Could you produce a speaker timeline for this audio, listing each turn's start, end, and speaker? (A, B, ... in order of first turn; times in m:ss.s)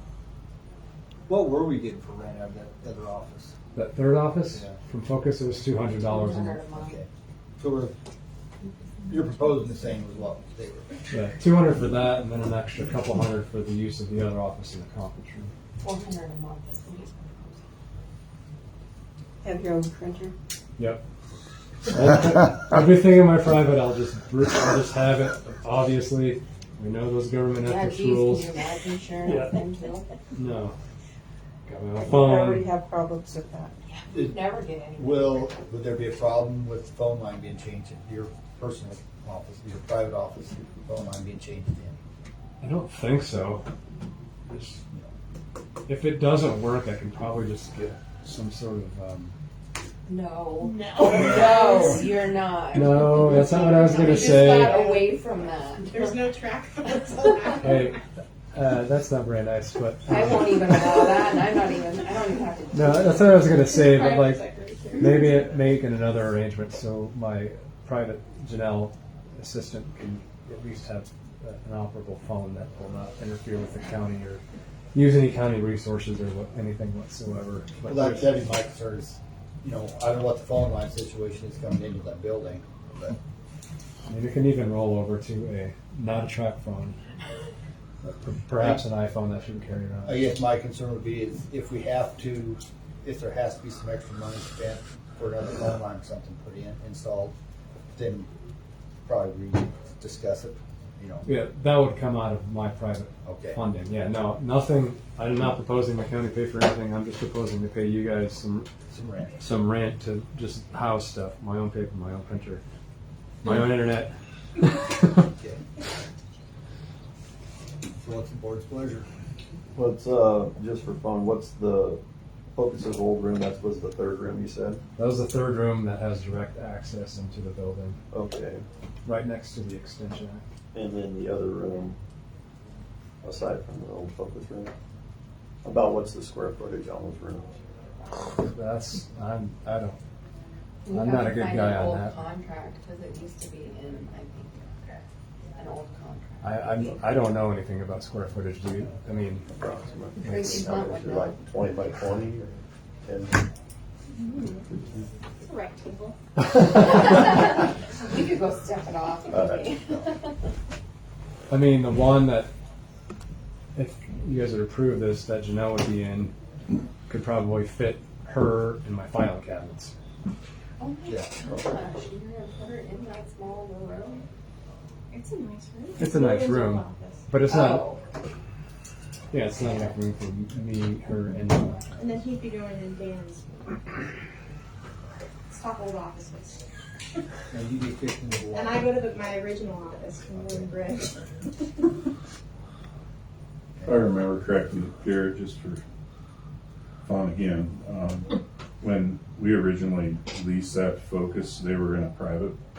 0:01.3-0:03.5 A
0:03.7-0:06.6 B
0:04.5-0:04.8 A
0:06.1-0:07.0 C
0:06.7-0:07.9 A
0:09.0-0:11.0 A
0:11.1-0:15.5 B
0:15.8-0:17.6 C
0:19.4-0:20.3 D
0:21.9-0:28.5 B
0:27.6-0:30.1 C
0:29.3-0:29.5 B
0:30.3-0:30.7 B
0:31.6-0:32.7 B
0:32.0-0:33.7 D
0:33.9-0:35.4 C
0:34.1-0:42.0 A
0:42.6-0:43.6 B
0:44.5-0:44.8 B
0:45.9-0:49.3 B
0:50.1-0:55.9 C
0:50.6-0:51.4 E
0:52.7-0:54.8 B
0:55.8-0:57.6 E
0:57.6-0:58.0 B
0:58.5-1:01.0 B
1:00.1-1:03.5 C
1:02.7-1:04.5 B
1:03.9-1:05.1 E
1:05.0-1:14.4 B
1:14.9-1:18.4 B
1:17.8-1:23.2 A
1:24.1-1:27.0 B
1:28.0-1:30.3 B
1:28.6-1:28.8 A
1:30.0-1:37.3 A
1:37.9-1:38.3 A
1:39.0-1:41.3 A
1:41.2-1:48.7 B
1:43.2-1:43.6 A
1:48.9-1:49.4 A
1:49.4-1:52.6 B
1:53.4-1:55.3 B
1:57.9-1:59.1 A
1:59.7-2:02.0 F
2:02.5-2:04.8 F
2:05.0-2:08.0 B
2:08.1-2:08.6 F
2:09.0-2:10.4 B
2:10.7-2:12.0 F
2:13.2-2:14.7 F
2:15.6-2:17.5 F
2:18.4-2:20.0 B
2:20.8-2:25.0 C
2:20.9-2:22.2 B
2:25.5-2:26.8 C
2:26.4-2:29.5 B
2:29.5-2:33.5 F
2:30.2-2:31.4 C
2:35.4-2:36.2 E
2:36.6-2:40.3 C
2:39.3-2:39.7 F
2:41.5-2:42.5 B
2:43.7-2:46.3 B
2:47.1-2:49.9 B
2:50.8-2:54.3 C
2:51.1-2:51.3 A
2:55.1-2:57.2 E
2:56.0-2:57.8 B
2:57.4-2:58.0 C
2:59.3-3:02.2 B
3:02.0-3:03.5 E
3:05.5-3:06.6 E
3:07.5-3:08.9 A
3:08.5-3:11.2 E
3:10.4-3:10.7 A
3:13.8-3:15.8 G
3:17.0-3:22.6 G